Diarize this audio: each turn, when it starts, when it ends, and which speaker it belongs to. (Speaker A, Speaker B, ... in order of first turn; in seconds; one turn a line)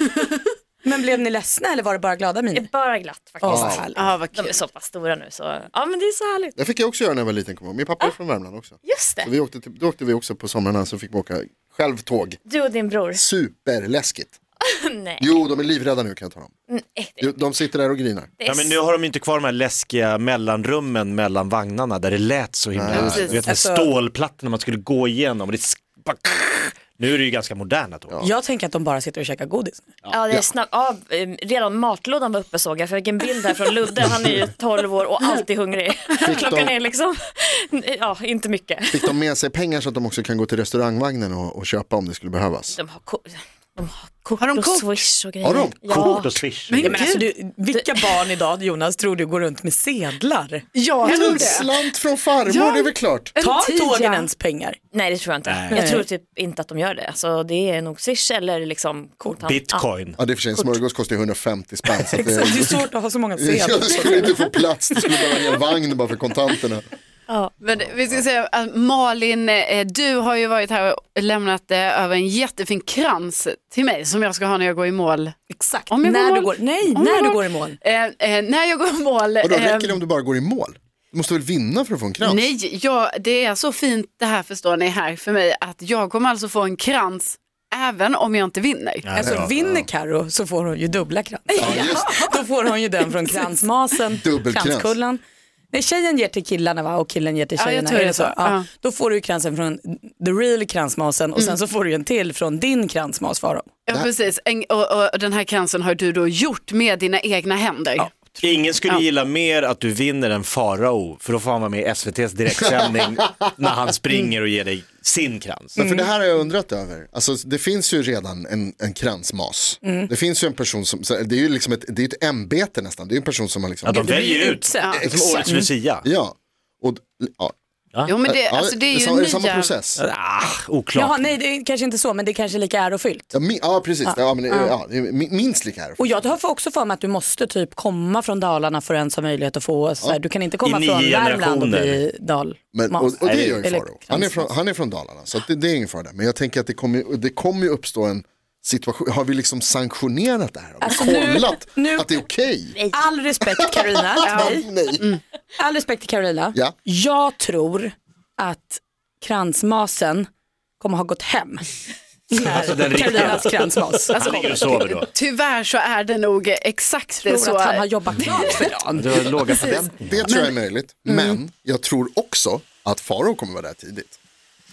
Speaker A: 0.8-2.7
Speaker B: 2.5-6.5
Speaker A: 3.4-4.0
Speaker C: 3.4-3.9
Speaker D: 4.0-4.6
Speaker C: 6.6-12.4
Speaker B: 8.8-9.3
Speaker B: 12.5-13.3
Speaker C: 13.1-14.3
Speaker B: 14.6-15.4
Speaker C: 15.2-16.5
Speaker B: 16.7-17.4
Speaker C: 17.2-18.3
Speaker B: 18.4-18.8
Speaker E: 18.4-28.2
Speaker C: 22.8-23.5
Speaker A: 23.4-23.9
Speaker A: 28.2-29.9
Speaker B: 30.1-39.1
Speaker C: 36.2-36.8
Speaker C: 38.9-42.8
Speaker B: 42.7-46.4
Speaker D: 44.4-45.1
Speaker C: 45.4-46.3
Speaker E: 45.9-47.1
Speaker D: 46.7-47.3
Speaker A: 46.8-51.3
Speaker B: 47.7-48.2
Speaker D: 50.8-51.8
Speaker C: 51.0-53.3
Speaker D: 52.5-54.3
Speaker A: 53.4-54.8
Speaker B: 54.9-59.9
Speaker E: 55.5-55.9
Speaker A: 55.7-56.1
Speaker E: 59.4-60.2
Speaker C: 60.2-66.8
Speaker B: 60.5-60.8
Speaker A: 62.0-65.2
Speaker B: 67.3-67.5
Speaker D: 67.6-75.3
Speaker A: 75.5-77.8
Speaker D: 75.9-80.0
Speaker C: 79.4-82.4
Speaker D: 82.2-89.1
Speaker E: 89.0-89.5
Speaker A: 89.2-103.7
Speaker C: 89.2-89.9
Speaker C: 91.6-92.2
Speaker C: 94.1-95.0
Speaker D: 97.6-98.7
Speaker D: 103.9-109.1
Speaker E: 108.4-115.8
Speaker C: 115.8-124.2
Speaker D: 115.8-116.1
Speaker A: 119.8-120.1
Speaker E: 123.8-126.0
Speaker A: 124.0-124.9
Speaker D: 124.2-125.0
Speaker C: 124.8-127.5
Speaker D: 128.1-129.8
Speaker C: 128.2-130.0
Speaker E: 130.0-131.3
Speaker A: 130.9-133.3
Speaker C: 133.3-136.4
Speaker A: 134.1-134.7
Speaker A: 136.0-144.5
Speaker E: 140.6-142.1
Speaker C: 142.7-152.8
Speaker E: 143.2-143.6
Speaker A: 150.8-152.2
Speaker B: 152.7-153.0
Speaker A: 152.9-154.7
Speaker C: 153.7-155.1
Speaker D: 154.2-155.2
Speaker A: 155.6-160.3
Speaker A: 160.8-161.7
Speaker A: 162.3-164.7
Speaker E: 162.4-163.5
Speaker E: 164.1-165.1
Speaker D: 164.1-168.6
Speaker A: 167.2-169.7
Speaker E: 168.2-170.3
Speaker C: 170.1-174.2
Speaker D: 170.2-170.6
Speaker D: 171.1-171.3